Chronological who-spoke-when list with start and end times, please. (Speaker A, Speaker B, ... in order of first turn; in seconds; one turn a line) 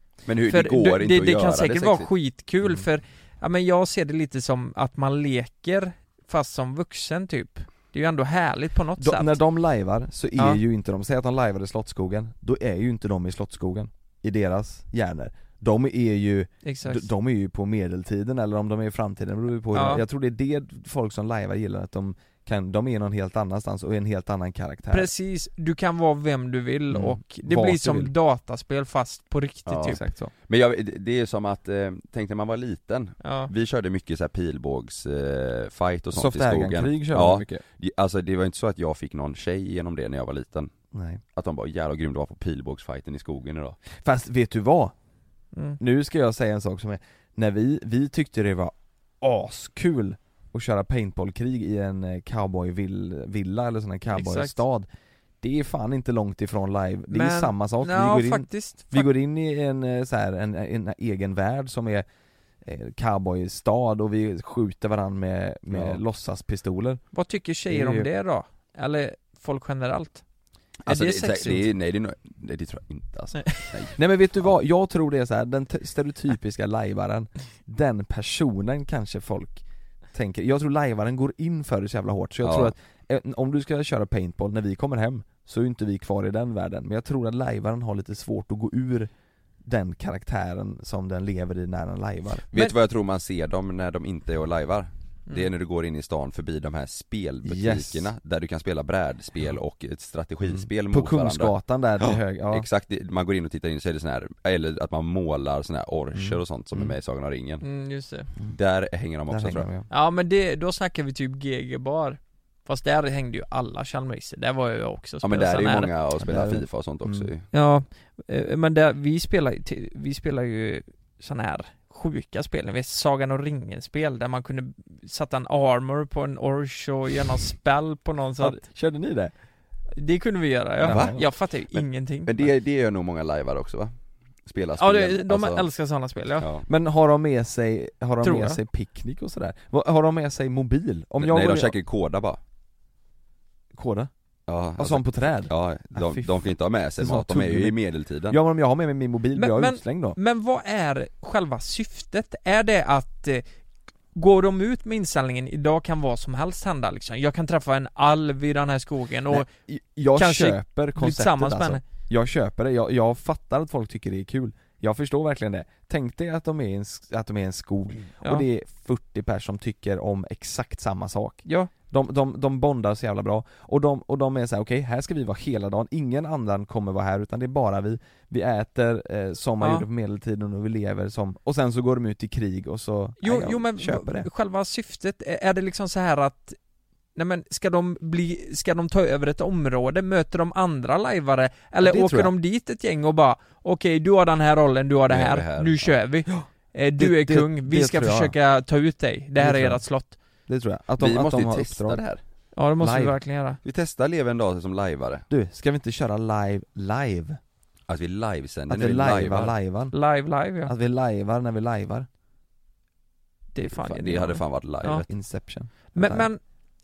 Speaker A: 0.3-2.1
Speaker B: 0.5-9.4
Speaker C: 9.0-25.1
Speaker B: 16.6-17.1
Speaker B: 19.7-20.0
Speaker B: 24.9-30.0
Speaker C: 26.9-28.1
Speaker A: 29.7-30.0
Speaker C: 29.8-30.3
Speaker A: 30.5-40.7
Speaker B: 33.2-33.5
Speaker C: 36.1-37.6
Speaker C: 40.9-41.2
Speaker A: 41.4-43.8
Speaker C: 44.0-44.9
Speaker C: 45.8-54.9
Speaker B: 54.1-54.6
Speaker C: 55.4-62.1
Speaker B: 57.1-59.1
Speaker C: 62.6-67.0
Speaker A: 65.7-66.0
Speaker B: 67.1-70.2
Speaker C: 67.7-68.1
Speaker A: 70.9-74.0
Speaker B: 70.9-71.7
Speaker C: 74.0-89.1
Speaker A: 82.4-82.7
Speaker C: 89.6-92.7
Speaker A: 92.5-107.6
Speaker C: 97.4-98.1
Speaker C: 100.5-102.7
Speaker C: 106.1-107.0
Speaker B: 107.6-108.3
Speaker A: 108.5-109.7
Speaker C: 109.3-109.9
Speaker B: 109.9-115.9
Speaker A: 115.2-117.5
Speaker C: 116.2-117.3
Speaker B: 117.5-128.6
Speaker C: 128.4-129.3
Speaker B: 129.9-132.5
Speaker A: 130.8-131.2
Speaker C: 130.8-131.2
Speaker A: 131.8-133.9
Speaker A: 134.5-135.7
Speaker B: 134.8-136.5
Speaker A: 136.4-136.7
Speaker C: 136.7-141.8
Speaker B: 138.2-138.6
Speaker A: 141.2-142.4
Speaker C: 143.7-144.1
Speaker A: 144.5-148.4
Speaker C: 144.8-146.3
Speaker C: 147.0-147.8
Speaker C: 148.3-150.2
Speaker B: 149.3-153.4
Speaker B: 154.2-159.5
Speaker C: 159.3-184.3
Speaker B: 160.2-161.8
Speaker B: 171.5-171.7
Speaker B: 179.6-179.9
Speaker B: 183.2-186.6
Speaker B: 187.2-200.2
Speaker C: 191.8-192.3
Speaker A: 195.1-195.9
Speaker C: 196.3-198.3
Speaker C: 199.4-199.8
Speaker C: 200.5-202.0
Speaker A: 201.0-202.2
Speaker B: 202.6-203.6
Speaker C: 202.8-203.2
Speaker A: 203.6-205.3
Speaker C: 205.3-207.4
Speaker A: 207.9-209.5
Speaker C: 208.7-209.9
Speaker B: 209.9-210.7
Speaker C: 210.7-212.1
Speaker B: 213.5-215.1
Speaker A: 213.7-215.1
Speaker C: 215.1-216.3
Speaker B: 215.9-216.4